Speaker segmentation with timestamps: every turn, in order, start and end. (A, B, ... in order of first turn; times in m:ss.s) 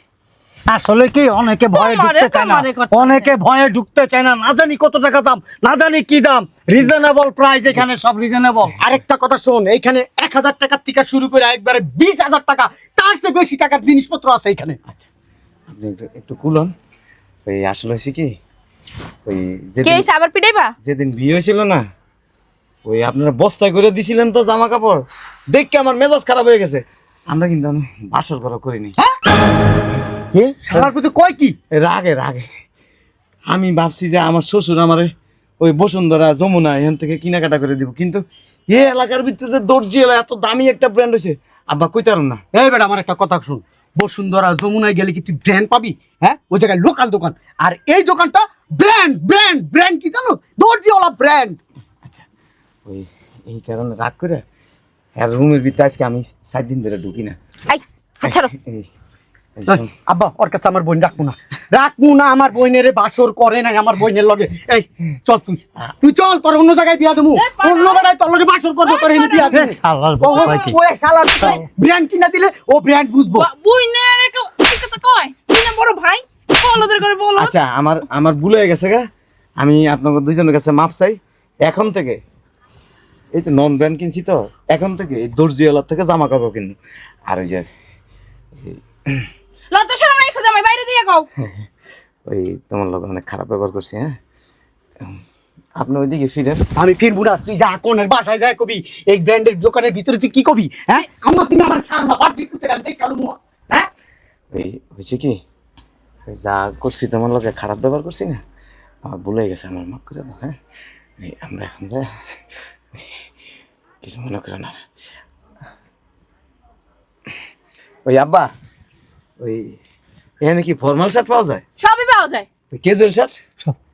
0:00.7-0:08.8 A
0:01.7-0:03.3 B
0:08.8-0:14.8 C
0:15.7-0:16.7 D
0:17.5-0:18.3 D
0:19.3-0:20.1 D
0:19.8-0:20.7 B
0:20.8-0:21.8 D
0:22.8-0:29.0 D
0:30.3-0:30.6 A
0:30.6-0:31.6 C
0:31.7-0:32.5 D
0:33.5-0:35.1 D
0:35.6-0:42.4 D
0:42.5-0:51.6 C
0:52.9-0:54.4 D
0:55.2-0:57.4 D
0:57.7-0:58.5 B
0:58.3-0:58.9 D
0:59.6-0:59.9 D
0:59.7-1:13.5 C
1:07.4-1:08.0 E
1:08.8-1:09.6 E
1:09.5-1:10.8 A
1:10.3-1:10.7 E
1:13.3-1:17.5 E
1:17.4-1:19.0 D
1:19.6-1:22.2 D
1:23.3-1:26.8 D
1:27.3-1:27.7 D
1:28.6-1:29.2 D
1:29.7-1:31.3 E
1:31.4-1:31.7 D
1:32.3-1:34.2 D
1:35.8-1:36.6 D
1:36.8-1:43.9 C
1:44.5-1:45.4 D
1:46.3-1:48.4 D
1:49.0-1:50.6 D
1:51.2-1:52.1 D
1:54.0-1:54.8 D
1:58.0-1:58.5 D
1:59.4-1:59.8 D
2:00.4-2:01.6 D
2:01.8-2:02.5 E
2:02.7-2:03.3 D